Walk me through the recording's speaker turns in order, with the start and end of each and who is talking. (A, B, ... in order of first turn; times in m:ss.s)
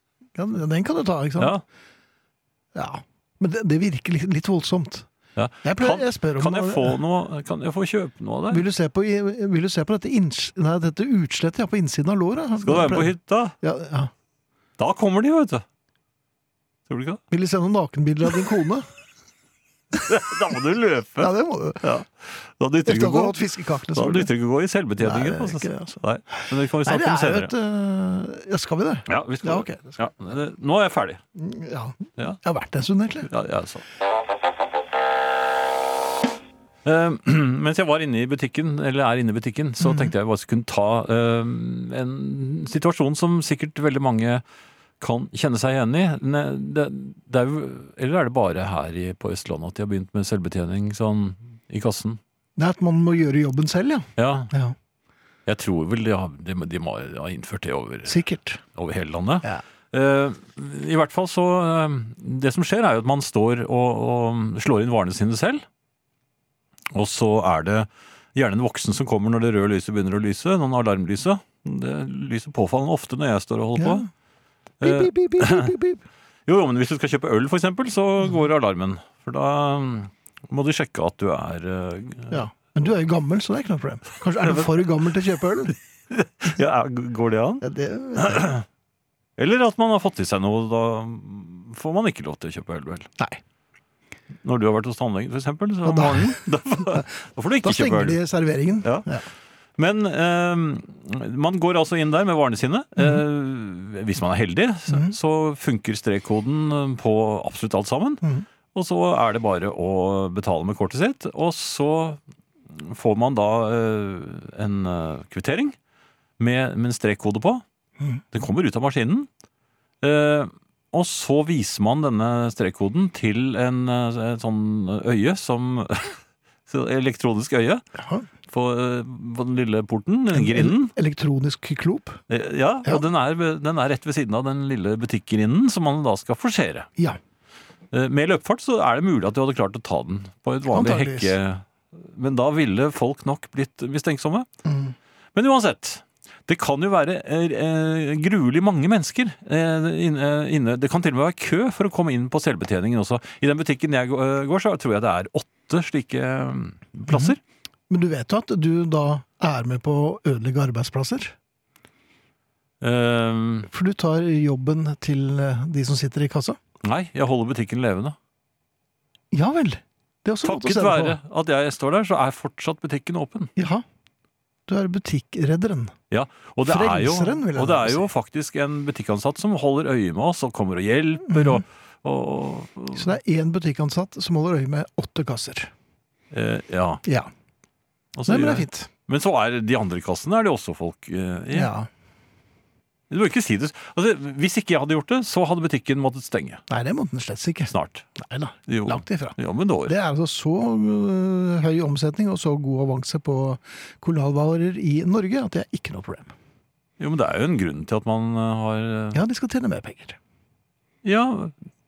0:00.4-0:01.6 A
0:01.4-0:01.6 B
0:02.7-0:05.1 A
0:05.4-0:08.6 B
0:05.6-0:07.0 A
0:08.5-0:14.1 A
0:12.6-0:13.6 B
0:14.8-0:15.6 B
0:16.9-0:17.2 B
0:17.3-0:18.9 A
0:20.0-0:27.5 B
0:21.2-0:21.8 A
0:22.9-0:24.3 A
0:25.0-0:26.0 A
0:26.8-0:30.0 A
0:29.1-0:31.2 B
0:31.4-0:33.3 A
0:33.3-0:33.8 B
0:36.8-0:44.4 B
0:39.8-0:40.1 A
0:45.0-0:52.2 B
0:52.6-0:54.8 A
0:54.2-0:54.5 B
0:55.5-0:58.2 B
0:58.1-0:58.6 A
0:58.8-1:05.6 B
1:06.9-1:14.1 B
1:13.8-1:14.1 A
1:14.8-1:15.8 B
1:14.8-1:16.0 A
1:16.5-1:22.4 B
1:22.3-1:25.8 A
1:24.4-1:25.0 B
1:26.1-1:27.7 B
1:27.6-1:28.5 A
1:28.2-1:28.6 B
1:29.4-1:33.1 B
1:34.4-1:38.2 B
1:35.8-1:37.0 A
1:37.6-1:39.2 A
1:38.8-1:39.1 B
1:39.8-1:48.2 B
1:48.2-1:48.5 A
1:48.7-1:52.2 B
1:52.7-1:55.8 B
1:56.4-1:57.6 B
1:58.0-1:58.2 A
1:58.3-1:59.3 B
2:00.0-2:07.8 B
2:08.0-2:08.3 A
2:08.5-2:10.9 B
2:10.3-2:12.2 A
2:12.3-2:16.9 B
2:17.9-2:24.5 B
2:20.7-2:21.4 A
2:24.6-2:25.0 A
2:25.4-2:37.4 B
2:37.1-2:37.4 A
2:37.9-2:41.4 A
2:42.8-2:43.7 B
2:43.7-2:46.6 A
2:46.8-2:48.2 B
2:49.3-2:51.2 A
2:50.4-2:53.5 B
2:53.6-2:53.8 A
2:54.7-2:55.9 A
2:56.1-3:03.2 B
2:56.6-2:58.1 A
3:01.3-3:01.6 A
3:02.9-3:05.7 A
3:06.3-3:07.0 B
3:07.0-3:07.3 A
3:08.2-3:11.7 B
3:08.3-3:08.9 A
3:11.5-3:11.9 A
3:13.1-3:16.6 B
3:16.7-3:26.3 A
3:17.7-3:18.1 B
3:18.7-3:19.9 B
3:27.0-3:29.2 B
3:29.1-3:30.2 A
3:31.0-3:31.5 B